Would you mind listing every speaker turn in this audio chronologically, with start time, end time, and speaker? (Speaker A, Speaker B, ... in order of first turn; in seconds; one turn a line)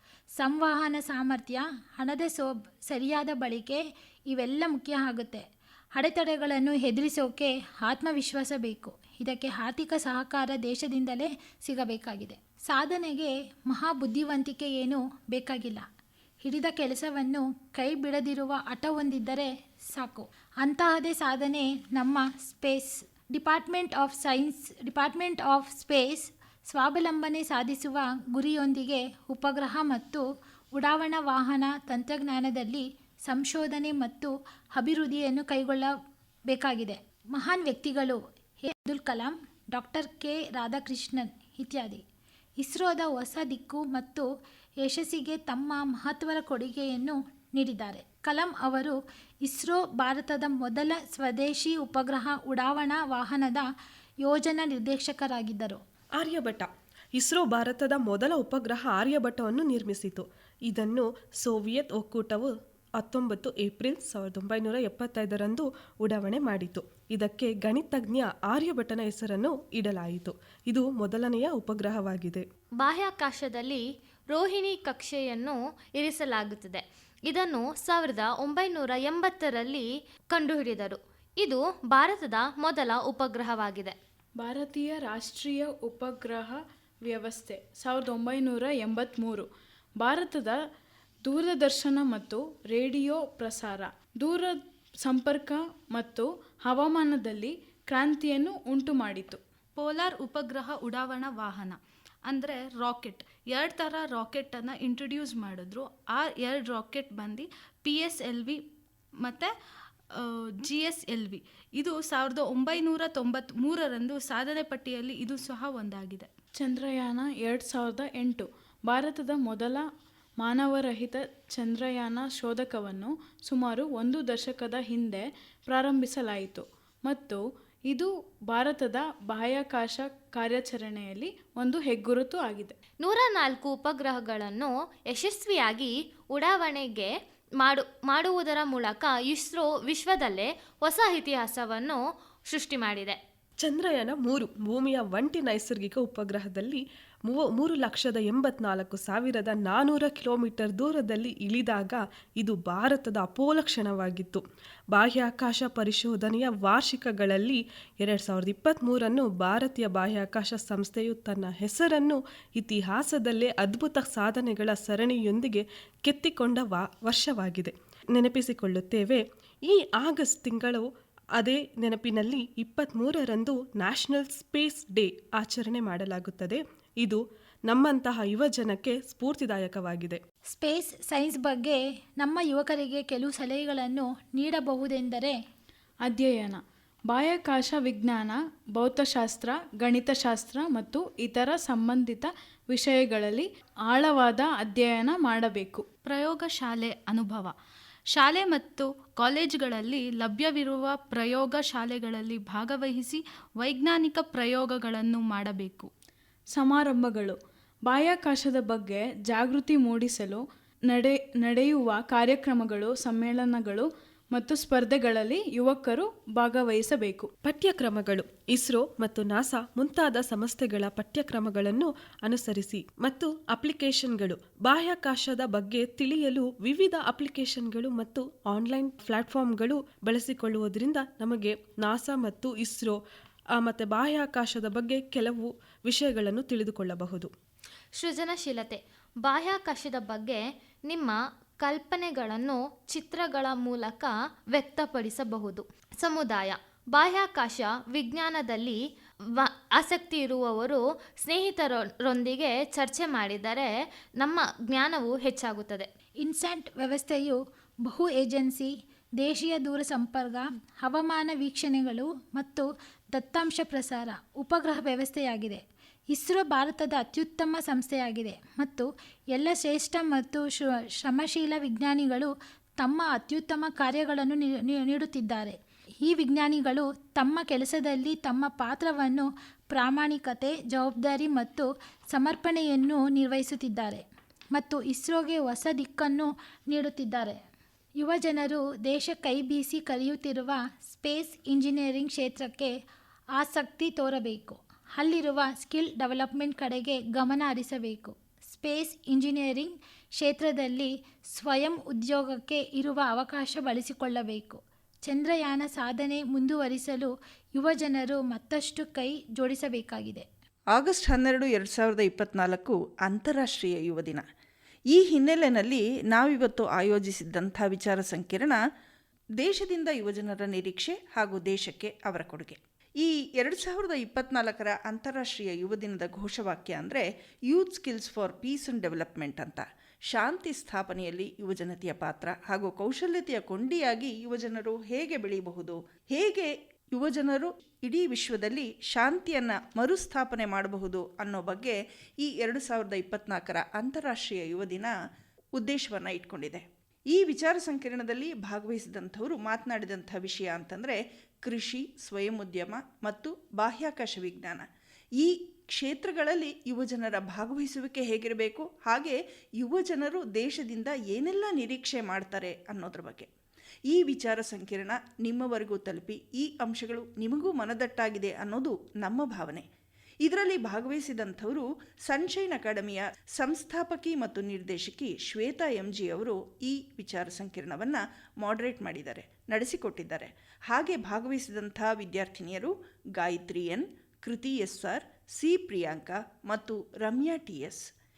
Speaker A: 0.4-15.9
Speaker A: 16.4-35.9
Speaker A: 36.5-42.0
Speaker A: 42.6-44.3
Speaker A: 44.8-53.7
Speaker A: 54.2-55.8
Speaker B: 56.2-72.4
Speaker C: 72.8-84.0
Speaker D: 84.4-89.5
Speaker D: 90.0-90.6
Speaker D: 91.3-99.4
Speaker E: 99.8-108.6
Speaker E: 109.2-109.5
Speaker E: 110.1-116.3
Speaker D: 116.6-119.9
Speaker D: 120.4-132.8
Speaker C: 133.0-143.2
Speaker B: 143.6-154.4
Speaker B: 154.9-170.9
Speaker B: 171.4-180.2
Speaker A: 180.5-185.4
Speaker D: 186.1-195.9
Speaker E: 196.1-197.5
Speaker E: 198.1-205.9
Speaker D: 206.5-217.3
Speaker B: 217.4-233.0
Speaker B: 233.6-237.3
Speaker C: 238.0-248.8
Speaker C: 249.4-255.9
Speaker A: 256.2-287.4
Speaker A: 288.0-292.7
Speaker A: 293.4-310.3
Speaker F: 310.7-314.2
Speaker F: 314.9-318.6
Speaker F: 319.4-344.9
Speaker F: 345.6-354.7
Speaker F: 355.2-363.3
Speaker F: 363.9-369.7
Speaker F: 370.2-387.8